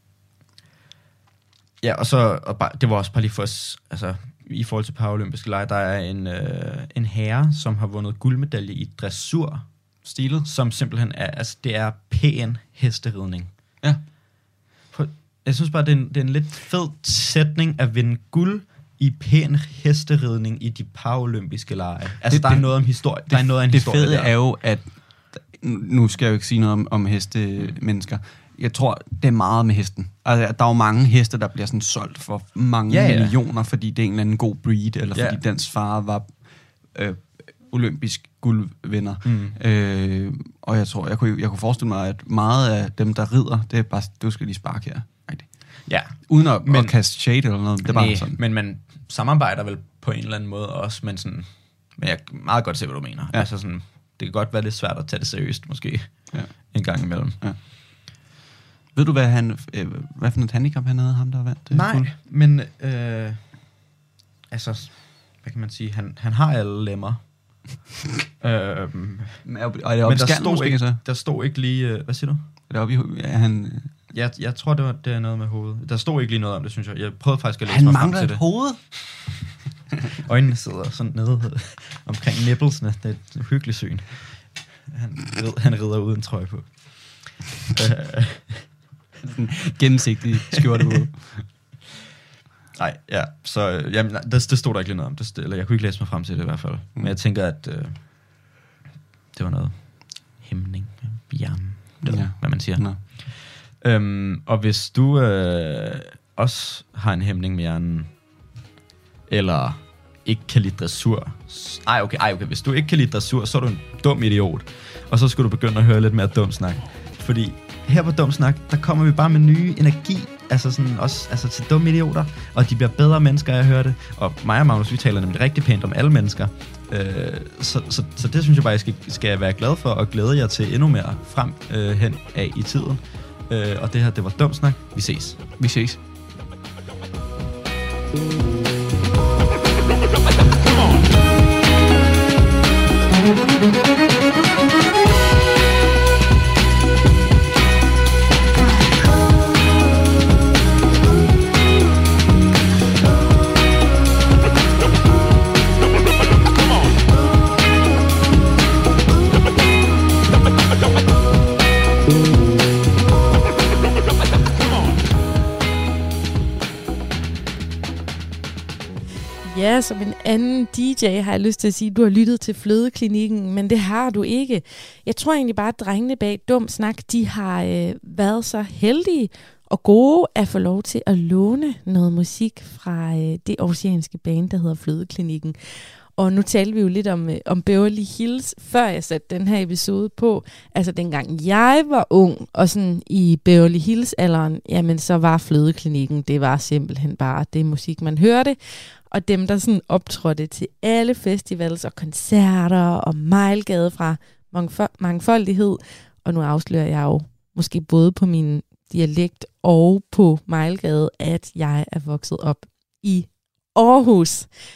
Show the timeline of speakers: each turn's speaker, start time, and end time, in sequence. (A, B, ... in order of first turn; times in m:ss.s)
0:01.8-0:09.6 A
0:10.0-0:10.5 B
0:10.4-0:13.5 A
0:14.9-0:24.3 A
0:22.2-0:36.4 B
0:32.9-0:33.4 A
0:35.1-0:35.4 A
0:36.9-0:48.4 B
0:39.2-0:39.6 A
0:45.9-0:47.0 A
0:47.8-0:57.4 A
0:56.3-0:57.6 B
0:59.0-1:02.1 B
1:01.7-1:03.4 A
1:04.5-1:07.2 A
1:08.4-1:09.4 A
1:09.4-1:11.0 B
1:10.0-1:12.4 A
1:12.7-1:13.9 B
1:14.1-1:18.4 A
1:17.7-1:18.8 B
1:20.2-1:28.7 A
1:29.3-1:31.5 B
1:32.8-1:38.0 A
1:39.3-1:48.1 A
1:42.0-1:43.0 B
1:49.3-2:15.4 A
2:15.6-2:16.0 B
2:49.4-3:05.6 C
3:06.2-3:34.5 C